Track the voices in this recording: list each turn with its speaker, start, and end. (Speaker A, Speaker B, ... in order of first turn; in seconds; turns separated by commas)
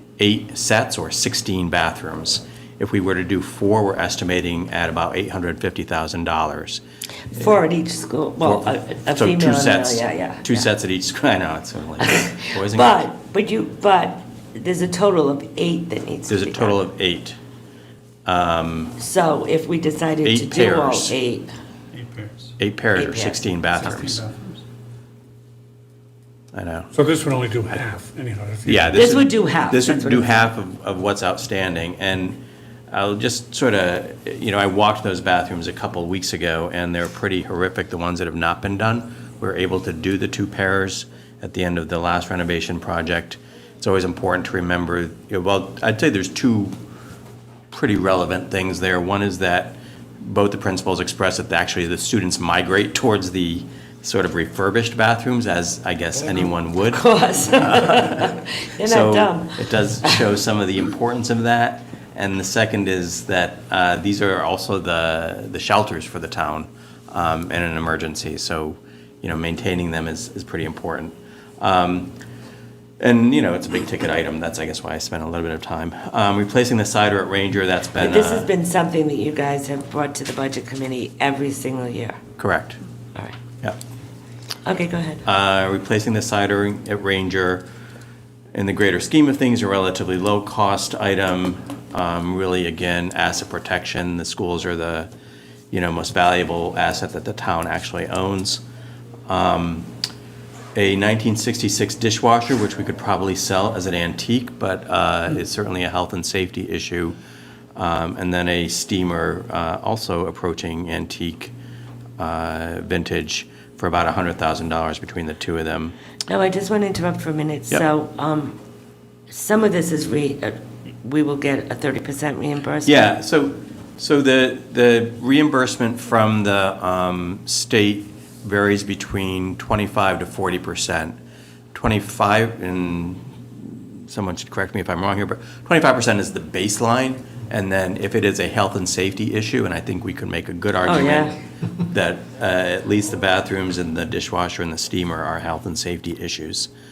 Speaker A: 0.2-6.8, Speaker B: 7.3-10.7, Speaker A: 8.4-13.1, Speaker B: 12.0-16.8, Speaker A: 16.3-17.4, Speaker A: 18.3-18.9, Speaker B: 19.0-21.5, Speaker A: 20.2-21.2, Speaker C: 21.9-22.5, Speaker A: 22.6-24.2, Speaker B: 22.9-23.4, Speaker C: 23.8-24.6, Speaker A: 26.5-26.9, Speaker C: 26.9-28.9, Speaker A: 28.7-46.7, Speaker B: 28.9-30.3, Speaker A: 47.7-57.0, Speaker B: 56.9-60.2, Speaker A: 57.6-72.1, Speaker A: 73.0-78.5, Speaker B: 78.0-82.2, Speaker A: 82.4-82.8, Speaker B: 84.7-85.2, Speaker A: 85.2-87.7, Speaker A: 88.5-95.1, Speaker A: 95.7-98.6, Speaker A: 99.3-99.9, Speaker A: 100.8-107.2, Speaker A: 107.8-111.5, Speaker A: 112.2-116.0, Speaker B: 116.3-118.6, Speaker B: 119.3-123.1, Speaker A: 122.8-131.2, Speaker A: 131.7-141.3, Speaker B: 140.8-141.3, Speaker A: 141.9-146.7